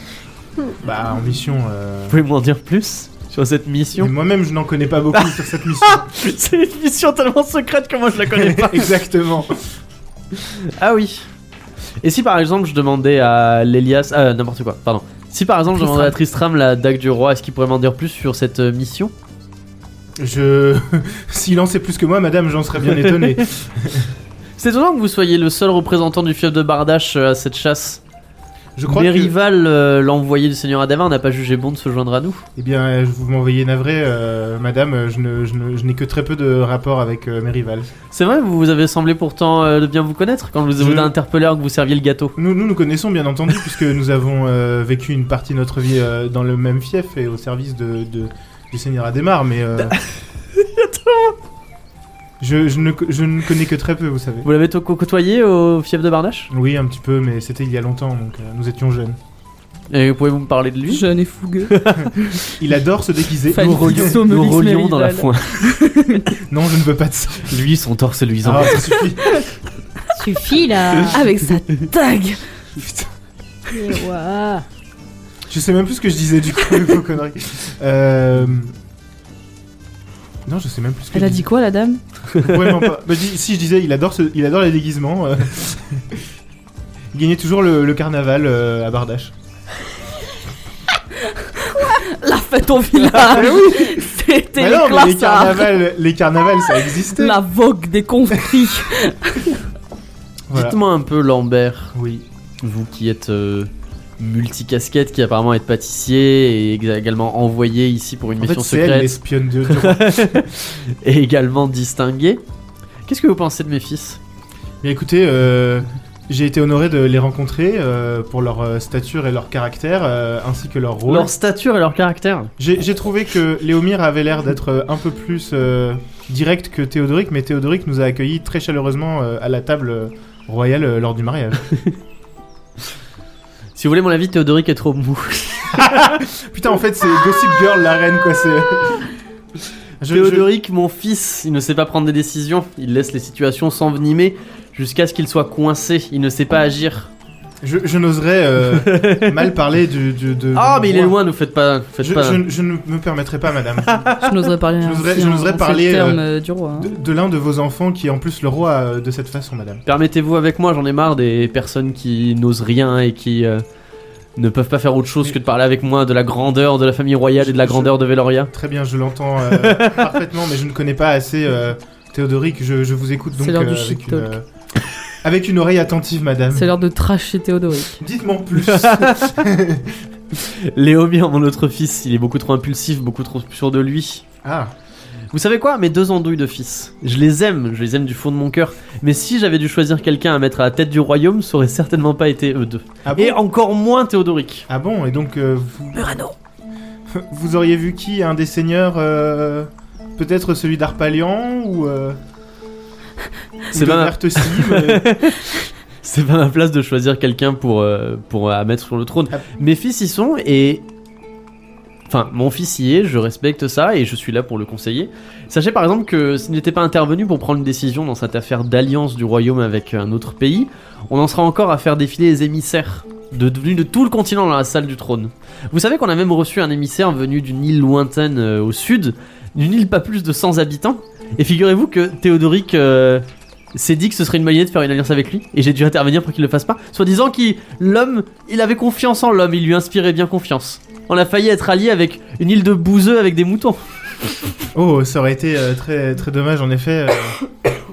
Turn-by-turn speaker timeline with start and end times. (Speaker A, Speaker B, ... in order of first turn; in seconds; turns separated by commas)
Speaker A: 0.8-2.2, Speaker B: 2.1-4.1, Speaker A: 4.0-6.1, Speaker B: 5.2-8.9, Speaker A: 8.3-9.7, Speaker B: 10.3-11.3, Speaker B: 12.0-19.1, Speaker C: 15.8-16.1, Speaker A: 20.2-24.1, Speaker B: 24.6-28.0, Speaker A: 28.8-29.3, Speaker B: 28.9-32.5, Speaker A: 32.6-37.9, Speaker B: 38.1-42.4, Speaker A: 40.8-41.1, Speaker A: 42.4-50.0, Speaker B: 49.8-51.4, Speaker A: 52.4-54.5, Speaker B: 54.4-56.5, Speaker A: 56.5-59.2, Speaker B: 59.9-61.0, Speaker C: 60.9-62.4, Speaker B: 61.7-62.1, Speaker A: 62.6-64.2, Speaker C: 63.5-66.3, Speaker B: 63.5-65.7, Speaker A: 66.5-67.6, Speaker B: 67.5-68.9, Speaker A: 68.4-69.4, Speaker C: 69.2-69.5, Speaker D: 70.1-71.2, Speaker C: 71.0-72.5, Speaker A: 72.8-73.0, Speaker D: 73.7-74.7, Speaker A: 75.5-78.7, Speaker A: 80.5-81.5, Speaker C: 81.1-82.0, Speaker A: 82.4-86.2, Speaker A: 87.1-89.3, Speaker C: 91.2-95.8, Speaker A: 93.1-97.4, Speaker C: 96.8-99.6, Speaker A: 100.5-100.8, Speaker B: 100.5-101.9, Speaker A: 101.9-102.2, Speaker B: 102.6-112.4, Speaker A: 108.4-110.4, Speaker B: 113.1-114.2, Speaker A: 114.8-121.3, Speaker B: 121.1-122.5, Speaker A: 122.6-131.7, Speaker B: 133.8-136.2, Speaker A: 135.7-139.1, Speaker A: 140.0-140.5, Speaker B: 140.1-147.1, Speaker A: 147.6-151.2, Speaker B: 148.7-149.5, Speaker B: 150.5-152.4, Speaker A: 152.0-154.1, Speaker B: 153.8-154.3, Speaker C: 154.2-156.9, Speaker A: 154.8-156.2, Speaker A: 156.8-159.8, Speaker B: 159.9-163.6, Speaker B: 164.4-168.5, Speaker A: 167.4-168.0, Speaker A: 168.5-174.4, Speaker B: 169.5-170.1, Speaker C: 173.4-174.3, Speaker A: 175.2-176.7, Speaker C: 176.5-178.0, Speaker A: 178.0-180.0, Speaker B: 178.6-179.4, Speaker B: 180.3-184.2, Speaker A: 184.4-184.7, Speaker B: 185.3-194.7, Speaker A: 193.0-193.4, Speaker A: 194.7-196.2, Speaker B: 196.0-196.3, Speaker A: 197.1-202.2, Speaker A: 203.7-205.1, Speaker B: 203.7-210.8, Speaker B: 212.1-243.9, Speaker A: 244.7-247.4